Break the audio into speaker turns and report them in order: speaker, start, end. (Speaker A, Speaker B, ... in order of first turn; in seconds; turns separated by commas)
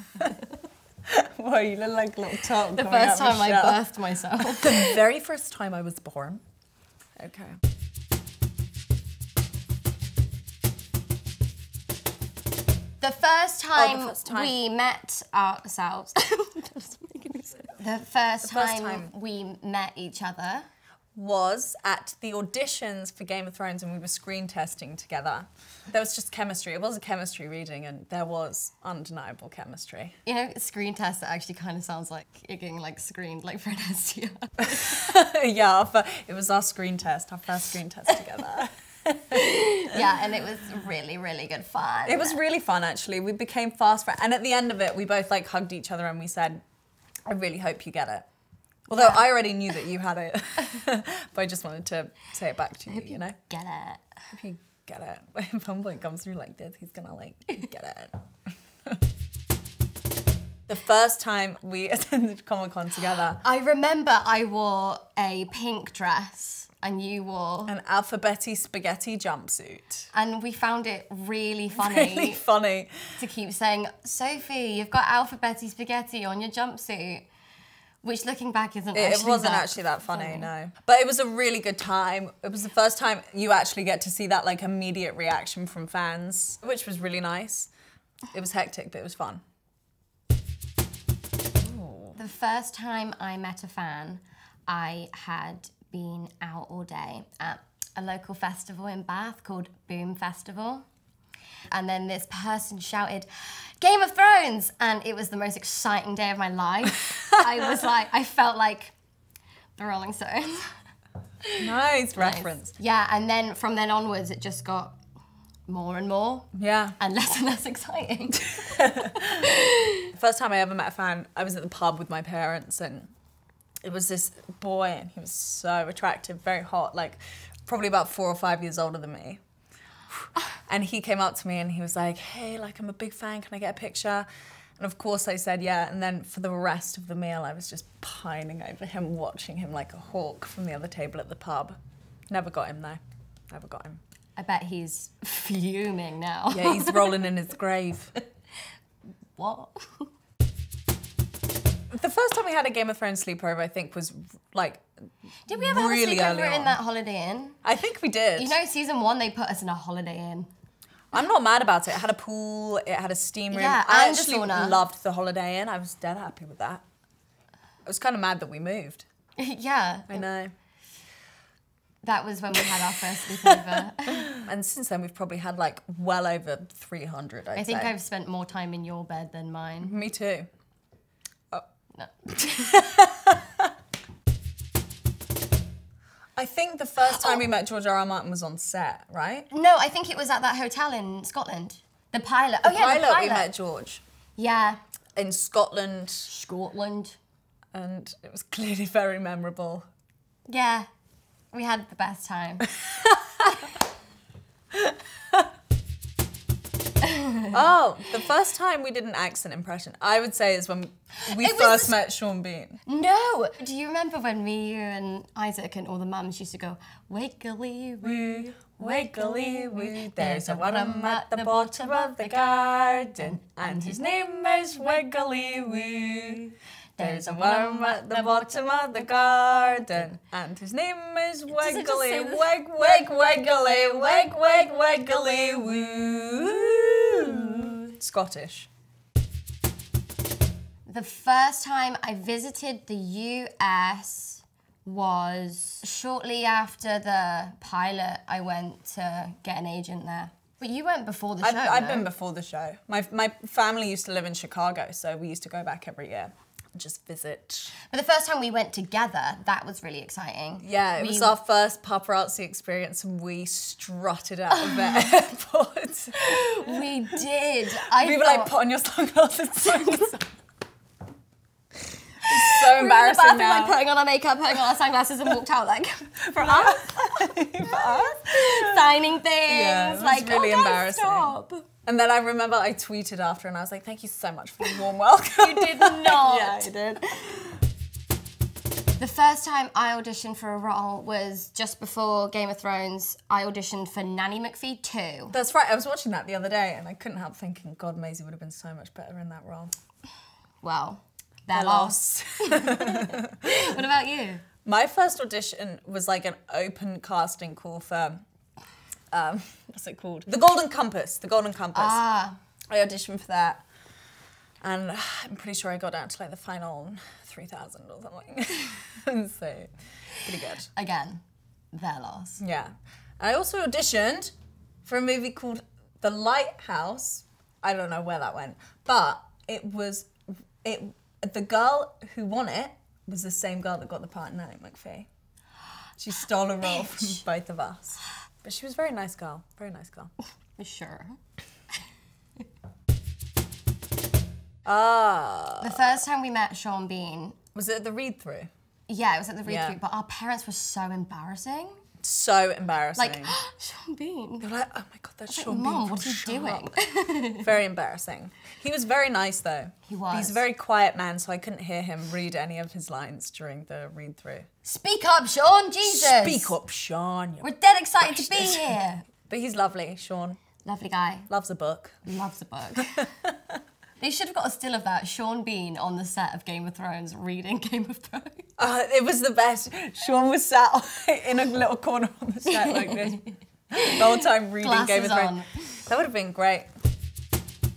Speaker A: 1.1-3.8, Speaker B: 2.7-5.0, Speaker A: 4.4-6.4, Speaker A: 7.2-7.6, Speaker B: 13.0-20.6, Speaker A: 13.7-14.5, Speaker A: 18.4-19.1, Speaker A: 21.1-30.2, Speaker B: 30.2-35.0, Speaker A: 34.7-40.1, Speaker B: 39.3-42.4, Speaker A: 42.0-46.6, Speaker A: 47.3-48.2, Speaker A: 48.9-53.4, Speaker B: 48.9-49.2, Speaker B: 52.9-54.0, Speaker A: 54.3-58.1, Speaker A: 60.7-63.4, Speaker B: 63.4-67.7, Speaker A: 67.7-70.1, Speaker B: 70.1-72.4, Speaker A: 71.7-73.2, Speaker B: 73.2-77.3, Speaker B: 78.0-80.5, Speaker A: 78.9-87.7, Speaker A: 88.3-89.4, Speaker A: 91.6-92.2, Speaker B: 92.2-100.8, Speaker B: 101.7-108.9, Speaker B: 109.8-110.8, Speaker A: 111.6-112.7, Speaker B: 112.2-115.0, Speaker B: 115.7-120.1, Speaker A: 116.5-117.0, Speaker A: 118.6-119.5, Speaker A: 120.1-123.1, Speaker A: 123.8-129.4, Speaker A: 130.7-134.2, Speaker A: 134.8-141.8, Speaker A: 142.3-144.0, Speaker B: 144.4-147.1, Speaker A: 146.5-148.1, Speaker B: 149.3-150.1, Speaker A: 151.9-154.8, Speaker B: 155.4-157.6, Speaker A: 155.5-156.8, Speaker A: 157.6-158.5, Speaker B: 158.4-160.5, Speaker A: 161.1-166.8, Speaker B: 163.5-164.8, Speaker A: 167.8-169.1, Speaker B: 169.4-170.2, Speaker A: 170.1-170.5, Speaker B: 172.0-174.3, Speaker A: 173.4-173.7, Speaker A: 174.3-177.9, Speaker B: 177.6-179.9, Speaker A: 179.8-180.5, Speaker B: 181.9-182.8, Speaker A: 182.4-183.4, Speaker A: 186.3-189.5, Speaker B: 187.0-187.4, Speaker B: 189.5-193.5, Speaker A: 192.6-194.0, Speaker B: 194.4-194.8, Speaker A: 195.2-196.3, Speaker B: 196.3-197.2, Speaker A: 197.7-199.8, Speaker B: 200.5-200.9, Speaker B: 201.5-202.7, Speaker A: 202.9-203.4, Speaker B: 207.0-207.5, Speaker A: 207.5-212.8, Speaker B: 211.2-211.9, Speaker B: 212.8-222.2, Speaker A: 218.0-238.7, Speaker B: 223.2-224.0, Speaker B: 227.0-228.3, Speaker B: 231.5-232.6, Speaker B: 240.9-252.1, Speaker A: 251.4-257.8, Speaker B: 257.9-261.4, Speaker A: 260.6-266.7, Speaker B: 264.5-265.1, Speaker B: 266.1-268.5, Speaker A: 268.0-270.3, Speaker A: 272.3-273.8, Speaker B: 272.3-281.7, Speaker A: 276.2-278.9, Speaker A: 279.5-287.6, Speaker B: 285.4-286.7, Speaker B: 289.0-295.3, Speaker A: 295.3-299.7, Speaker B: 300.6-304.4, Speaker A: 301.5-303.5, Speaker A: 304.6-308.2, Speaker A: 309.1-312.0, Speaker B: 311.7-312.4, Speaker A: 312.7-313.6, Speaker A: 314.6-320.7, Speaker B: 320.7-322.4, Speaker A: 322.4-324.3, Speaker A: 324.8-335.1, Speaker A: 336.0-340.1, Speaker B: 340.6-341.2, Speaker A: 344.6-346.0, Speaker B: 345.6-347.4, Speaker A: 347.5-348.5, Speaker B: 348.9-351.8, Speaker A: 349.4-349.8, Speaker A: 352.0-353.3, Speaker B: 353.0-354.5, Speaker A: 354.4-356.7, Speaker B: 355.3-357.5, Speaker A: 357.4-364.5, Speaker B: 359.9-360.4, Speaker B: 364.6-366.5, Speaker A: 365.8-368.7, Speaker B: 367.4-369.1, Speaker A: 369.3-370.4, Speaker B: 370.6-371.3, Speaker A: 371.3-372.0, Speaker B: 372.1-373.0, Speaker A: 373.0-373.3, Speaker B: 374.0-378.5, Speaker A: 378.6-383.2, Speaker B: 382.5-385.5, Speaker A: 383.8-386.7